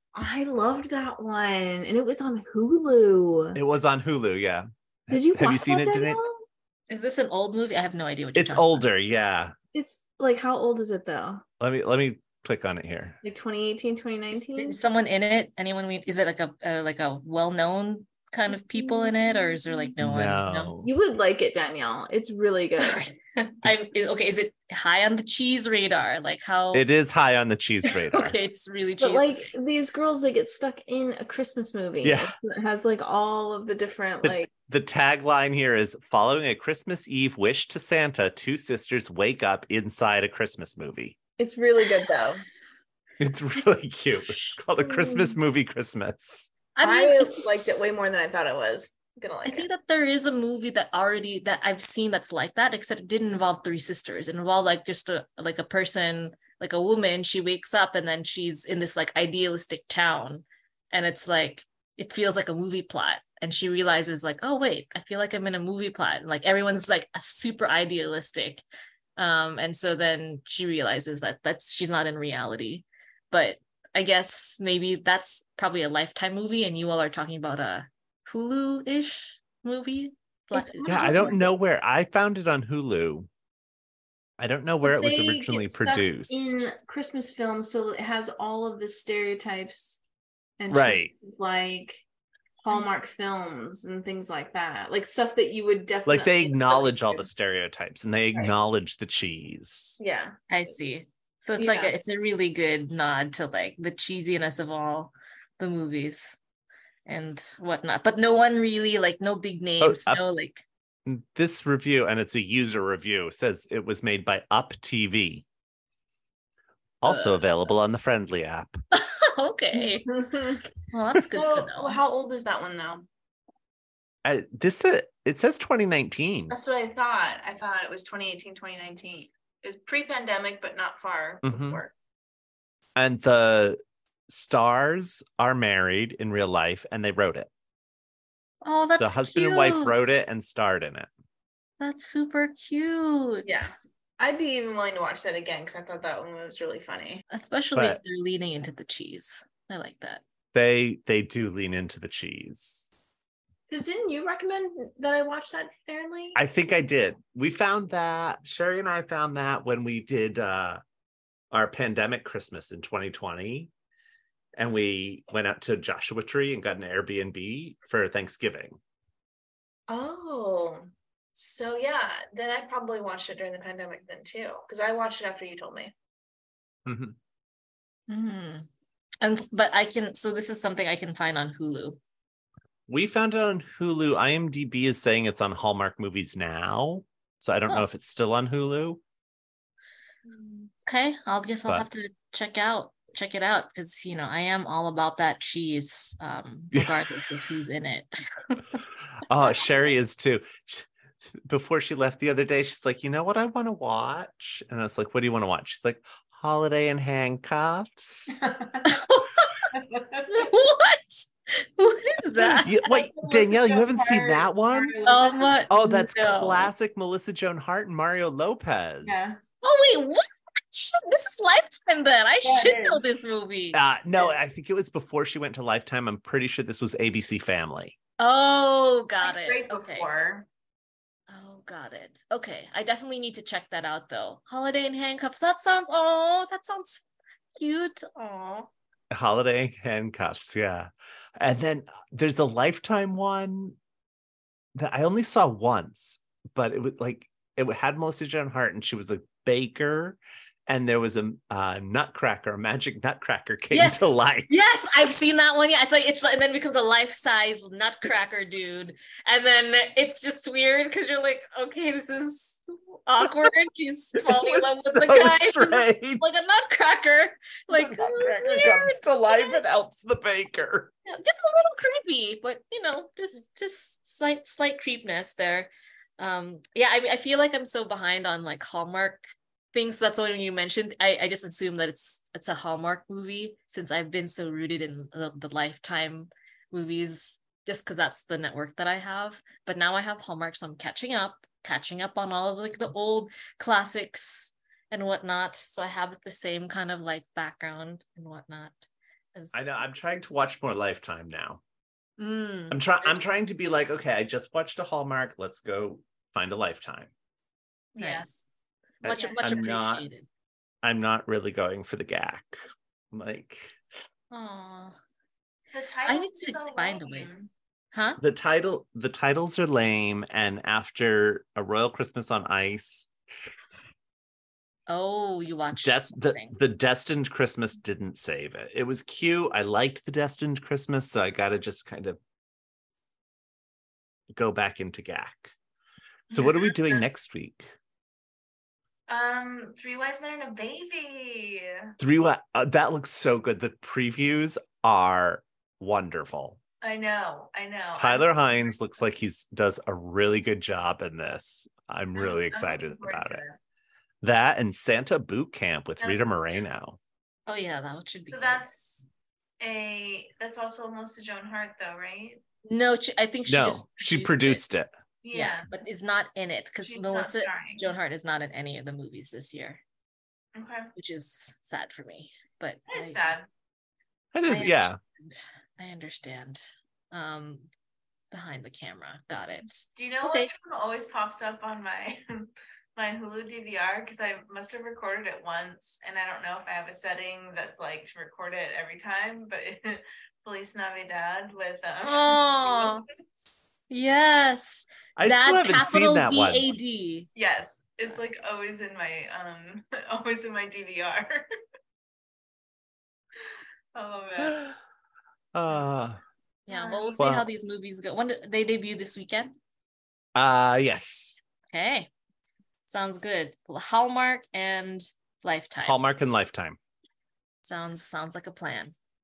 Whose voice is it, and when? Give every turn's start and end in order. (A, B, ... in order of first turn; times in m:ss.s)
0:00.1-0:03.6 A
0:03.6-0:06.2 B
0:05.1-0:06.4 A
0:06.9-0:08.9 C
0:08.4-0:09.5 B
0:09.7-0:11.4 A
0:11.6-0:13.2 B
0:13.2-0:14.8 A
0:14.3-0:20.7 C
0:18.8-0:19.6 A
0:20.0-0:20.9 B
0:20.8-0:23.1 A
0:22.8-0:26.9 C
0:26.7-0:28.4 B
0:27.9-0:29.5 C
0:29.0-0:34.5 A
0:32.0-0:32.3 B
0:34.2-0:41.2 B
0:41.4-0:42.4 A
0:43.2-0:46.5 B
0:44.3-0:45.4 C
0:46.8-0:47.4 C
0:46.8-0:49.7 A
0:49.4-1:08.6 C
1:09.2-1:21.4 C
1:20.5-1:21.5 A
1:20.9-1:23.3 B
1:24.4-1:26.7 B
1:24.8-1:30.0 A
1:30.6-1:32.0 A
1:30.7-1:31.1 B
1:32.6-1:37.3 A
1:36.1-1:40.0 B
1:40.0-1:40.4 A
1:40.5-1:46.4 C
1:41.6-1:41.9 A
1:47.1-1:50.6 C
1:49.8-1:50.2 B
1:51.1-1:55.5 B
1:57.0-1:58.8 B
1:57.1-1:57.5 C
1:58.9-2:00.1 C
1:59.7-2:00.6 A
2:00.9-2:02.0 C
2:01.3-2:03.1 A
2:04.2-2:06.6 B
2:06.5-2:11.9 A
2:11.4-2:11.8 B
2:13.0-2:17.5 B
2:18.6-2:20.0 C
2:19.0-2:21.1 B
2:21.8-2:23.8 C
2:23.4-2:27.2 A
2:27.3-2:30.2 C
2:27.8-2:28.0 B
2:30.5-2:32.9 B
2:33.7-2:36.4 A
2:36.4-2:40.8 B
2:41.5-2:43.7 B
2:44.6-2:48.8 B
2:49.9-2:55.9 A
2:56.9-2:57.2 B
2:58.1-2:58.7 C
2:59.2-3:02.0 C
3:02.9-3:09.0 B
3:10.3-3:10.7 A
3:10.9-3:18.8 C
3:19.2-3:20.9 B
3:21.4-3:28.4 B
3:28.4-3:28.9 A
3:28.8-3:29.5 C
3:29.7-3:30.2 A
3:30.3-3:32.9 C
3:32.6-3:35.0 B
3:32.8-3:35.8 A
3:35.0-3:36.7 C
3:35.7-3:39.4 B
3:39.0-3:39.5 A
3:39.6-3:43.8 C
3:42.4-3:43.0 A
3:43.7-3:48.0 B
3:48.2-3:50.1 C
3:49.2-3:50.5 A
3:51.3-3:57.0 C
3:57.6-3:58.7 C
3:59.1-4:03.8 B
4:04.8-4:14.5 B
4:13.7-4:29.6 C
4:24.2-4:26.2 B
4:27.7-4:30.9 B
4:31.1-4:59.8 C
4:59.5-5:01.6 B
5:02.2-5:03.1 C
5:02.7-5:07.1 B
5:08.0-5:08.3 A
5:08.0-5:08.4 C
5:09.0-5:10.1 B
5:09.0-5:10.3 C
5:09.1-5:09.6 A
5:10.8-5:12.6 B
5:13.1-5:13.8 B
5:14.3-5:15.0 C
5:15.7-5:17.5 A
5:16.0-5:17.4 C
5:17.9-5:18.2 C
5:18.2-5:23.1 B
5:24.9-5:26.6 C
5:25.7-5:32.2 B
5:34.3-5:35.5 B
5:36.3-5:37.0 A
5:36.3-5:37.7 B
5:39.1-5:41.8 A
5:42.0-5:46.6 B
5:46.8-5:48.8 A
5:48.0-5:53.4 B
5:52.2-5:53.6 A
5:54.2-5:57.0 B
5:56.0-5:56.3 A
5:57.5-5:58.7 C
5:58.3-5:59.1 A
5:59.6-6:02.4 A
6:02.6-6:04.6 C
6:03.5-6:04.9 B
6:05.2-6:05.7 A
6:05.3-6:09.8 C
6:06.8-6:07.9 A
6:10.6-6:10.9 A
6:11.0-6:13.4 C
6:12.9-6:13.5 A
6:14.3-6:15.0 B
6:14.4-6:17.7 C
6:18.3-6:20.6 C
6:19.9-6:33.6 A
6:32.0-6:33.1 C
6:33.9-6:37.3 C
6:35.2-6:36.7 B
6:37.4-6:41.5 A
6:43.9-6:44.6 A
6:44.4-6:44.7 B
6:45.5-6:46.2 B
6:46.7-6:49.5 C
6:46.7-6:47.2 A
6:47.2-6:47.5 B
6:50.4-6:51.4 B
6:51.7-6:52.1 C
6:52.9-6:56.0 C
6:55.8-6:56.8 B
6:57.6-6:58.9 C